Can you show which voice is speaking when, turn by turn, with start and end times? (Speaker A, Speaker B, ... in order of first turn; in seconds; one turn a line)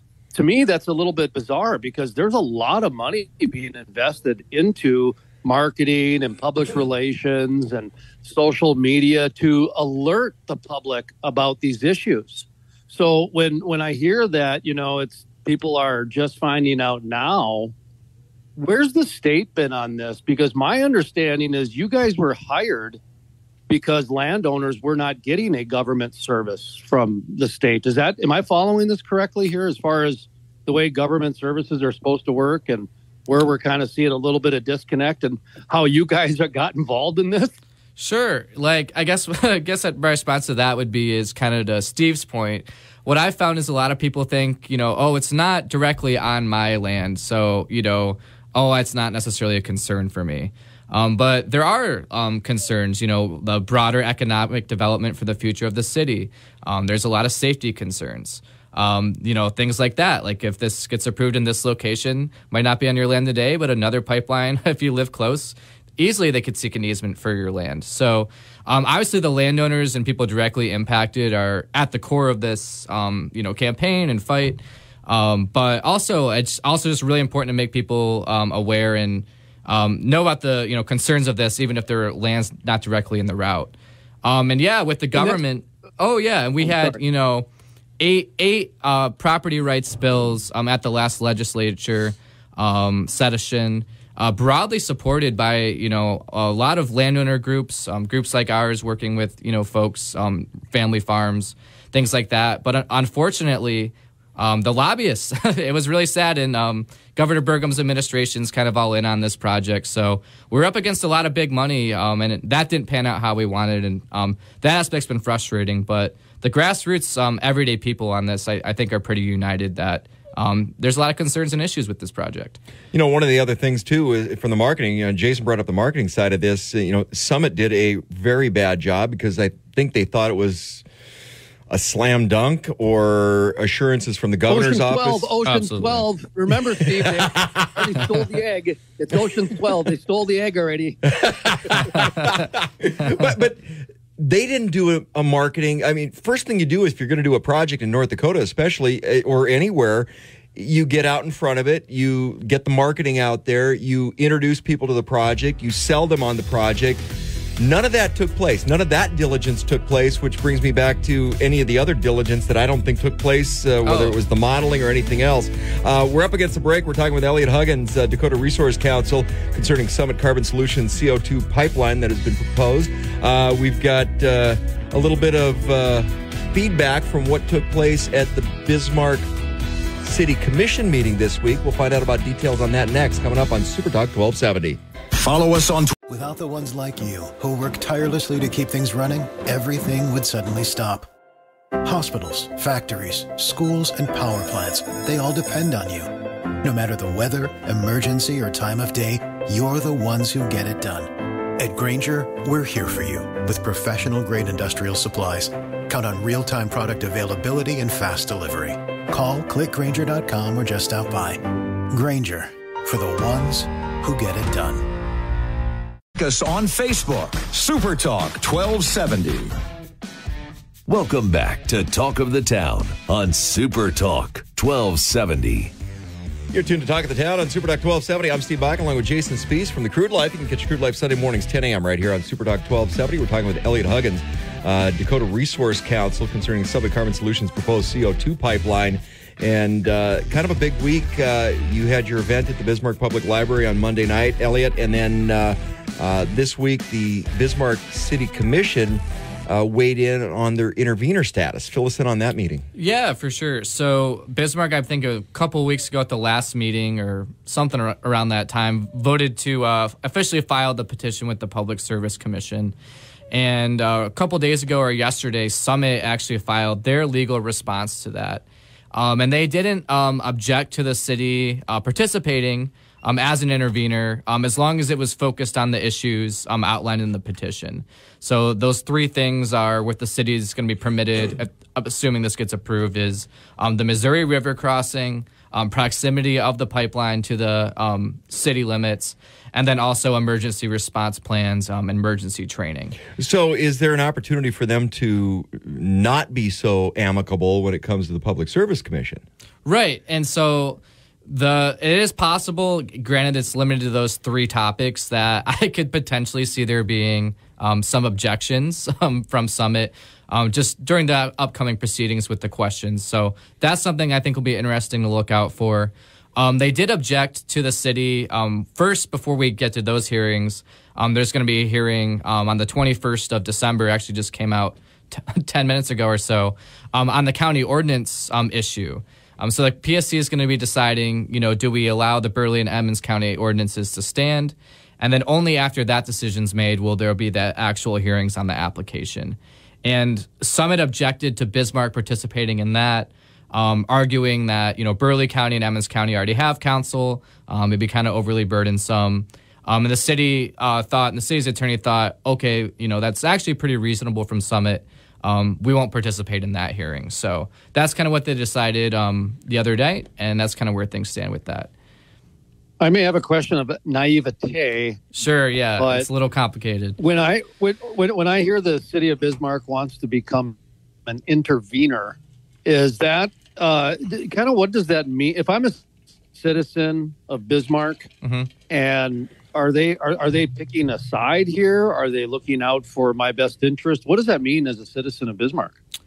Speaker A: 0.3-17.7
Speaker A: 18.6-23.0
Speaker A: 23.7-37.5
Speaker B: 38.0-87.5
Speaker A: 85.1-85.4
Speaker A: 86.6-87.0
Speaker B: 88.0-122.6
Speaker C: 122.9-130.8
Speaker C: 131.7-135.3
Speaker A: 134.5-141.1
Speaker B: 135.4-136.0
Speaker C: 137.0-137.3
Speaker C: 141.2-141.8
Speaker C: 142.8-157.0
Speaker C: 157.6-179.2
Speaker B: 163.8-164.2
Speaker C: 180.0-184.8
Speaker D: 185.1-185.9
Speaker E: 186.1-191.1
Speaker E: 191.8-196.1
Speaker E: 196.6-214.9
Speaker D: 216.1-219.6
Speaker F: 220.9-225.7
Speaker C: 226.5-252.6
Speaker B: 252.7-262.7
Speaker B: 263.3-293.0
Speaker C: 293.1-299.2
Speaker B: 299.6-361.7
Speaker A: 362.8-365.1
Speaker B: 365.1-367.0
Speaker A: 365.8-366.1
Speaker A: 367.0-378.1
Speaker B: 378.2-378.5
Speaker A: 378.7-385.7